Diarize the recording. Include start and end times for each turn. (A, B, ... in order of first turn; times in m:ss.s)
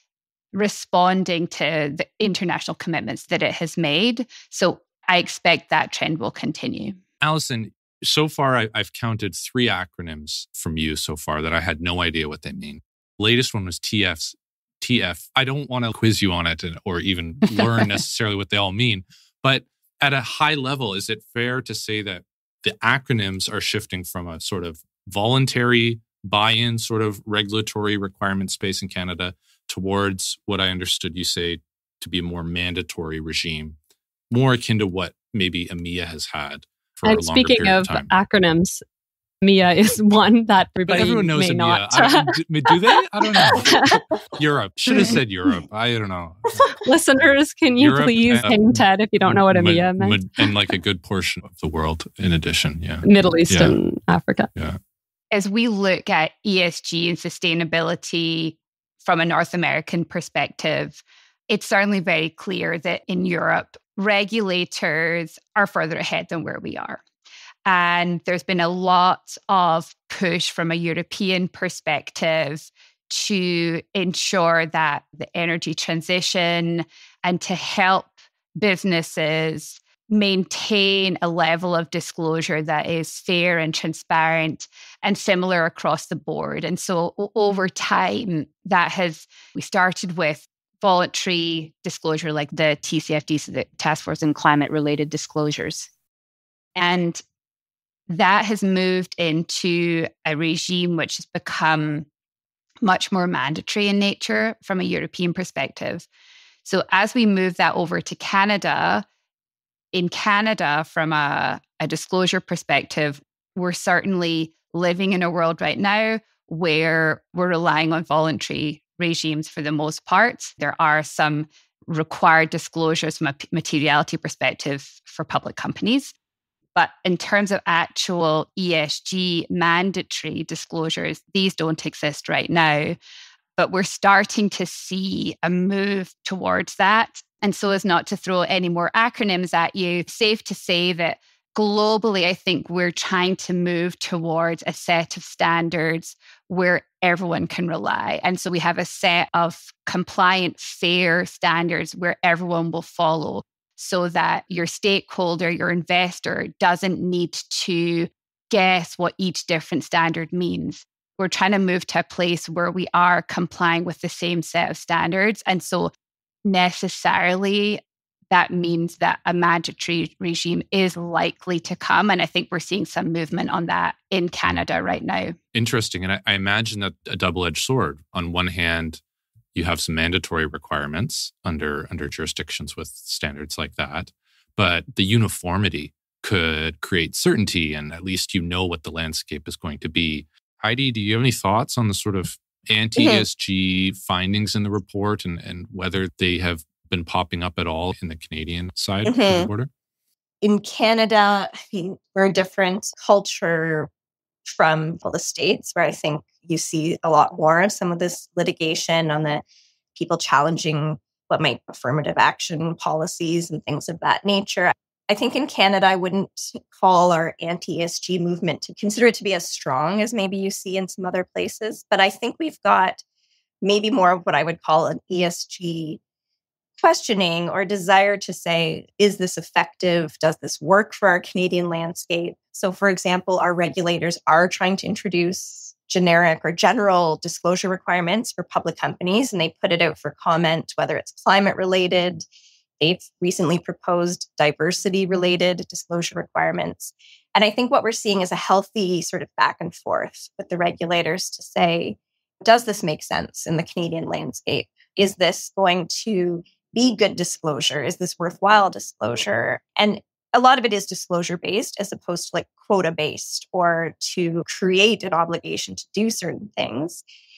0:00.5-0:07.0 A
0:07.2-0:33.8 B
0:34.3-0:38.1 B
0:37.0-0:38.8 C
0:39.4-0:42.7 C
0:40.9-0:43.8 B
0:43.4-0:44.0 C
0:44.3-0:46.7 B
0:44.9-0:45.2 C
0:46.7-0:50.2 C
0:47.8-0:53.8 B
0:53.0-0:54.5 C
0:55.3-1:07.0 A
1:07.6-1:35.9 A
1:36.8-1:37.2 A
1:38.1-1:42.0 A
1:42.8-1:46.1 A
1:46.6-1:49.0 A
1:49.9-2:06.1 A
2:06.7-2:13.0 A
2:13.6-2:45.9 A
2:46.4-2:55.4 A
2:55.5-2:59.0 B
2:59.5-3:19.7 B
3:13.0-3:13.2 D
3:19.0-3:19.5 D
3:20.4-3:23.9 D
3:24.4-3:29.4 D
3:29.9-3:43.0 D
3:43.6-3:46.0 D
3:46.8-4:02.2 D
4:02.8-4:27.0 D